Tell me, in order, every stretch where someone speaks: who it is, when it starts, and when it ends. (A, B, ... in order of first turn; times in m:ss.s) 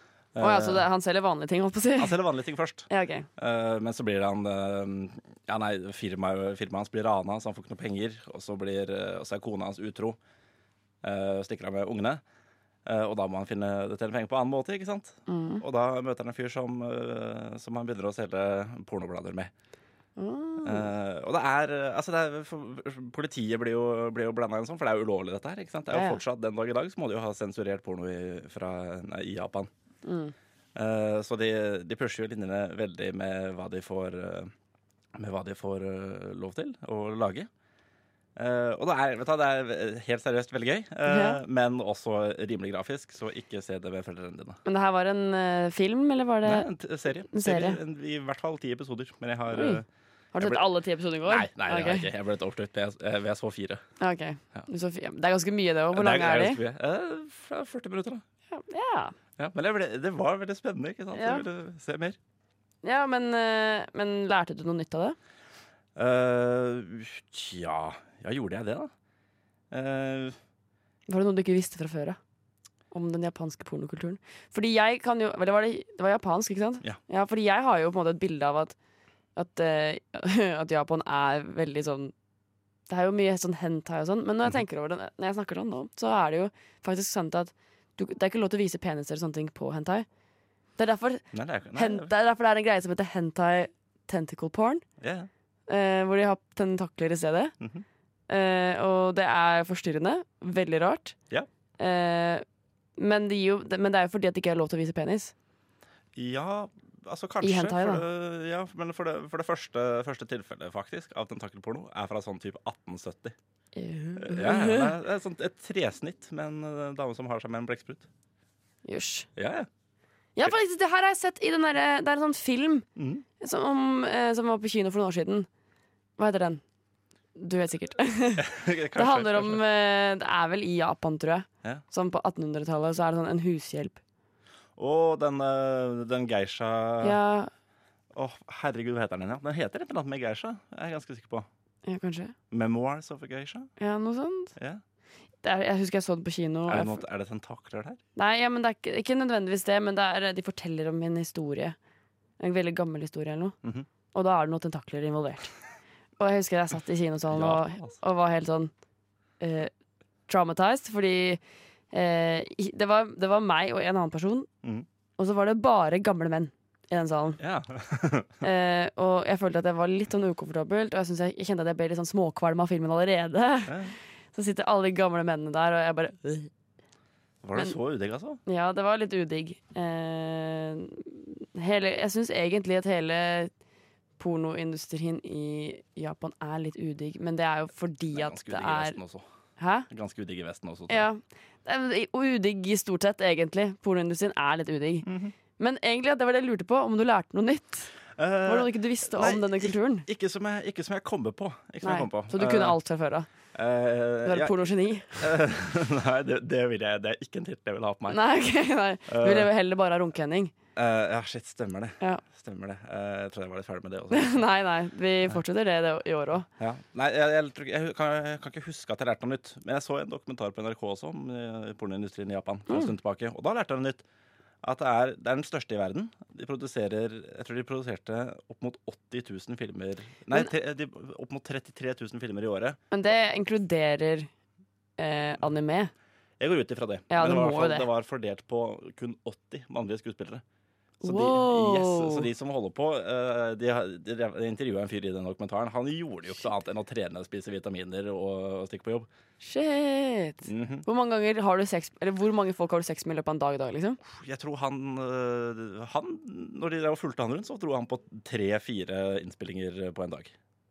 0:00.4-0:00.8 A
0:00.4-0:02.2 B
0:02.0-0:10.2 A
0:02.9-0:03.3 B
0:11.0-0:12.2 A
0:12.8-0:19.5 A
0:15.3-0:15.6 B
0:20.2-0:20.9 B
0:20.6-0:29.7 A
0:25.9-0:26.2 B
0:30.0-0:30.3 B
0:30.8-0:34.5 A
0:35.2-0:37.5 A
0:38.4-0:44.6 A
0:41.1-0:41.4 B
0:44.7-0:46.7 B
0:46.4-0:49.9 A
0:47.3-0:47.8 B
0:49.5-0:49.8 B
0:50.3-0:52.1 B
0:50.4-0:50.7 A
0:51.2-0:53.8 A
0:54.0-0:56.6 B
0:55.9-0:58.2 A
0:58.5-0:59.1 B
0:59.4-1:02.2 A
1:01.1-1:01.4 B
1:02.8-1:05.2 B
1:06.0-1:08.9 A
1:09.7-1:10.4 A
1:11.1-1:12.2 B
1:12.9-1:18.8 B
1:19.4-1:22.1 B
1:22.9-1:30.1 B
1:30.8-1:31.2 B
1:31.3-1:32.1 A
1:31.8-1:34.8 B
1:35.0-1:35.3 A
1:35.7-1:37.5 B
1:37.6-1:37.8 A
1:38.3-1:41.2 B
1:41.8-1:42.4 B
1:43.0-1:45.3 B
1:46.2-1:53.4 A
1:47.4-1:48.0 B
1:53.8-1:55.0 B
1:54.2-1:58.1 A
1:58.8-1:59.3 B
1:59.4-1:59.7 A
2:00.4-2:02.9 B
2:03.0-2:03.2 A
2:03.4-2:05.5 B
2:06.2-2:06.6 B
2:07.4-2:14.0 B
2:08.4-2:09.6 A
2:14.8-2:17.2 A
2:17.0-2:17.5 B
2:18.1-2:21.5 A
2:21.8-2:22.3 B
2:22.5-2:23.7 A
2:23.8-2:24.6 B
2:24.6-2:24.8 A
2:25.4-2:27.0 B
2:26.7-2:28.0 A
2:28.2-2:31.8 B
2:32.4-2:33.6 B
2:33.6-2:33.9 A
2:34.1-2:35.5 B
2:36.2-2:38.7 B
2:37.3-2:38.0 A
2:39.4-2:39.7 B
2:40.3-2:41.4 B
2:41.9-2:44.5 B
2:45.2-2:47.4 B
2:47.4-2:48.4 A
2:48.4-2:53.8 B
2:53.7-2:54.0 A
2:54.3-2:56.5 B
2:57.4-2:58.4 A
2:58.5-3:03.5 B
3:04.2-3:09.0 B
3:08.1-3:09.3 A
3:09.6-3:09.9 B
3:09.9-3:11.1 A
3:10.9-3:15.1 B
3:15.0-3:15.4 A
3:15.6-3:17.9 B
3:18.2-3:22.8 A
3:18.5-3:20.1 B
3:21.8-3:23.3 B
3:23.5-3:28.2 A
3:24.2-3:25.3 B
3:28.1-3:30.5 B
3:29.1-3:29.5 A
3:30.8-3:34.5 A
3:34.1-3:36.5 B
3:36.6-3:44.0 A
3:44.6-3:52.8 A
3:52.9-3:54.3 B
3:55.0-3:55.9 B
3:56.4-4:00.4 A
3:57.1-3:57.9 B
4:01.0-4:09.1 A
4:01.0-4:02.3 B
4:09.4-4:14.0 B
4:10.5-4:10.9 A
4:14.0-4:20.3 A